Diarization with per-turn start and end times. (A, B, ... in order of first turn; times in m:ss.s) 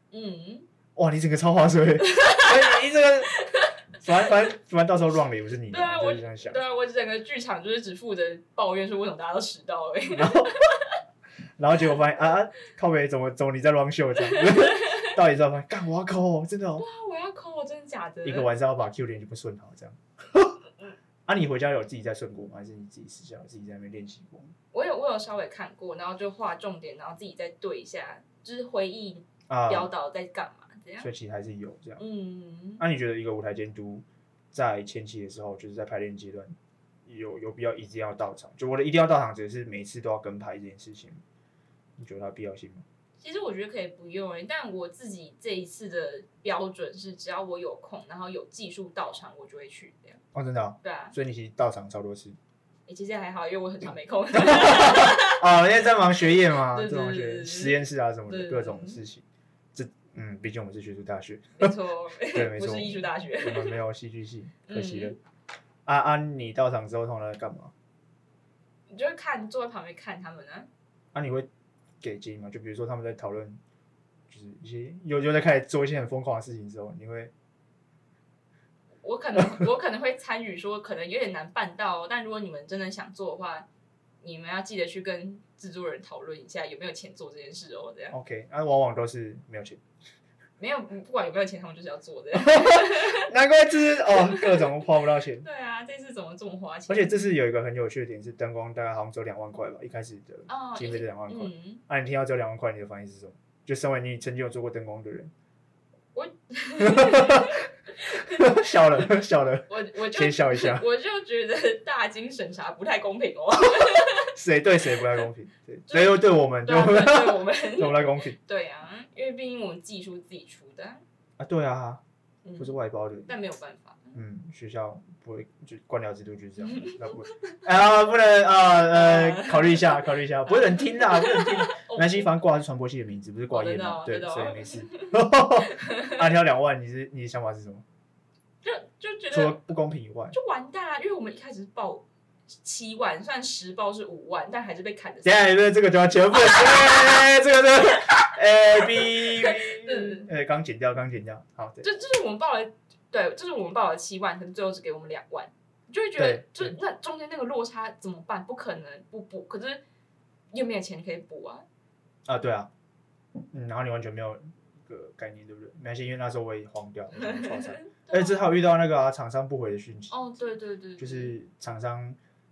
0:00.1-0:00.7 A
0:01.0-0:03.4 B
0:02.0-0:02.8 A
0:03.4-0:03.7 A
0:04.0-0:06.6 B
0:05.7-0:11.0 A
0:10.1-0:10.6 B
0:11.6-0:16.8 B
0:14.3-0:15.1 A
0:16.8-0:18.5 A
0:18.2-0:20.6 B
0:21.3-0:24.5 B
0:24.7-0:31.1 A
0:29.5-0:29.9 B
0:31.0-0:32.0 B
0:32.0-0:32.8 A
0:32.8-0:41.2 B
0:42.0-0:42.8 B
0:43.2-0:50.2 A
0:50.3-0:52.4 B
0:50.8-0:51.1 A
0:52.9-0:55.4 A
0:54.3-1:01.7 B
0:56.5-0:57.8 A
0:58.3-0:59.0 A
1:01.6-1:03.8 A
1:02.3-1:05.2 B
1:04.7-1:05.2 A
1:05.9-1:07.7 B
1:08.9-1:10.7 A
1:11.1-1:11.5 B
1:12.0-1:13.6 B
1:14.3-1:17.3 B
1:19.0-1:23.7 A
1:24.2-1:28.1 A
1:28.1-1:29.8 B
1:30.6-1:33.3 A
1:32.4-1:35.5 B
1:34.1-1:34.7 A
1:35.4-1:37.2 A
1:36.9-1:45.3 B
1:40.5-1:41.8 A
1:46.1-1:49.1 A
1:46.8-1:50.8 B
1:49.7-1:54.3 A
1:54.2-1:58.4 B
1:55.9-2:01.0 A
2:01.4-2:02.0 B
2:02.4-2:02.7 A
2:02.6-2:03.3 B
2:03.3-2:04.2 A
2:04.1-2:17.8 B
2:06.6-2:07.6 A
2:08.9-2:12.3 A
2:13.5-2:16.3 A
2:18.6-2:19.6 A
2:19.3-2:20.4 B
2:20.3-2:25.5 A
2:25.2-2:31.9 B
2:26.3-2:27.2 A
2:28.8-2:30.3 A
2:31.8-2:39.8 A
2:36.2-2:36.8 B
2:40.5-2:41.7 A
2:42.3-2:42.7 B
2:43.5-2:50.2 B
2:47.2-2:48.4 A
2:50.1-2:51.4 A
2:51.0-2:52.2 B